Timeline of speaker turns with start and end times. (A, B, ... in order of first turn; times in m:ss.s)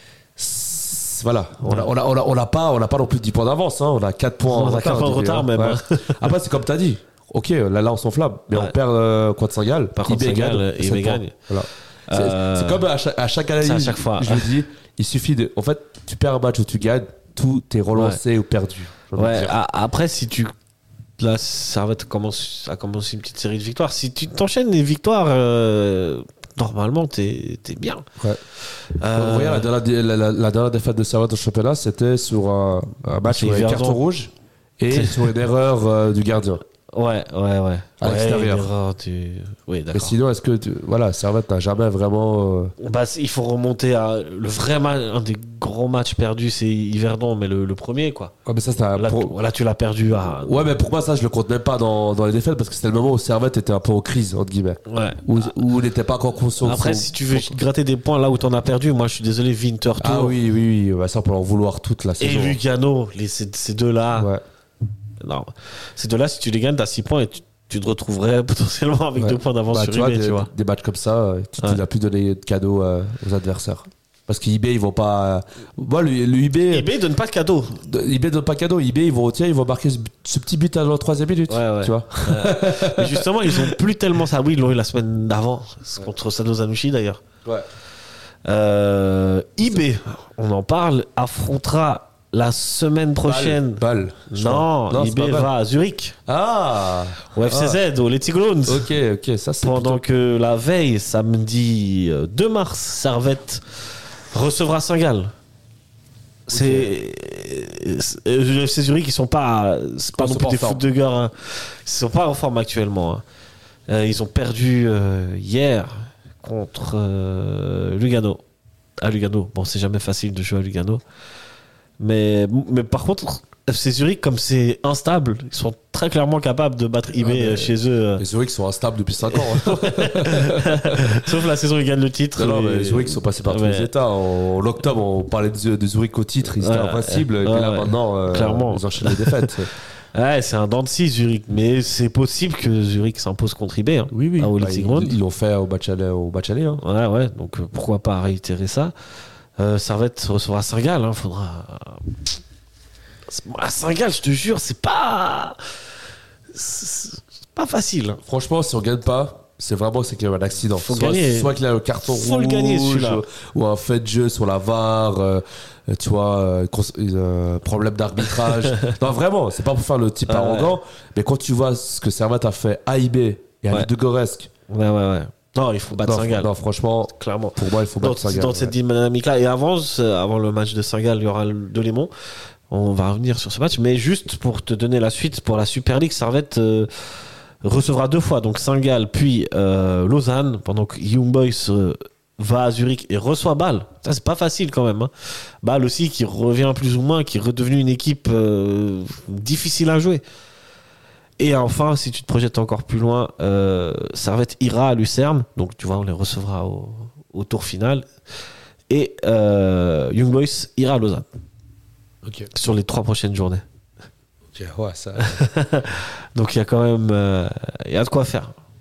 0:00.4-0:19.6 A
0:01.6-0:01.9 B
0:04.5-0:06.2 B
0:10.0-0:11.4 B
0:12.1-0:12.8 B
0:13.6-0:14.5 B
0:17.9-0:18.2 B
0:19.2-0:20.5 B
0:21.2-0:28.0 B
0:29.0-0:29.7 B
0:29.0-0:36.6 A
0:33.3-0:34.0 B
0:34.9-0:35.3 B
0:36.9-0:40.2 B
0:38.0-0:38.7 A
0:39.9-0:42.7 A
0:42.8-0:48.3 B
0:48.5-0:49.4 A
0:49.0-0:50.6 B
0:50.4-0:57.6 A
0:54.9-0:55.5 B
0:56.6-1:00.4 B
1:00.0-1:02.6 A
1:02.2-1:04.3 B
1:04.2-1:04.4 A
1:05.2-1:10.5 B
1:09.2-1:16.9 A
1:16.7-1:17.8 B
1:17.8-1:23.8 A
1:21.5-1:27.2 B
1:28.4-1:36.2 B
1:33.2-1:35.5 A
1:36.3-1:37.8 A
1:37.3-1:38.9 B
1:38.7-1:40.0 A
1:39.6-1:43.6 B
1:44.3-1:45.3 B
1:46.5-1:46.9 A
1:46.5-1:53.2 B
1:50.1-1:50.8 A
1:53.9-1:58.4 B
1:59.0-2:01.0 B
2:02.0-2:08.2 B
2:07.2-2:11.4 A
2:09.3-2:13.9 B
2:12.4-2:19.7 A
2:16.6-2:19.5 B
2:20.1-2:25.2 B
2:24.1-2:26.8 A
2:26.8-2:28.9 B
2:29.6-2:32.2 B
2:33.3-2:35.6 B
2:36.5-2:38.2 B
2:38.2-2:54.5 A
2:40.8-2:43.2 B
2:48.5-2:48.9 B
2:50.3-2:50.8 B
2:54.7-2:56.5 B
2:56.0-2:58.7 A
2:57.1-3:02.1 B
3:02.7-3:20.2 B
3:21.4-3:28.1 B
3:28.9-3:31.3 B
3:32.2-3:32.5 A
3:32.5-3:33.6 B
3:34.5-3:35.4 A
3:35.2-3:38.5 B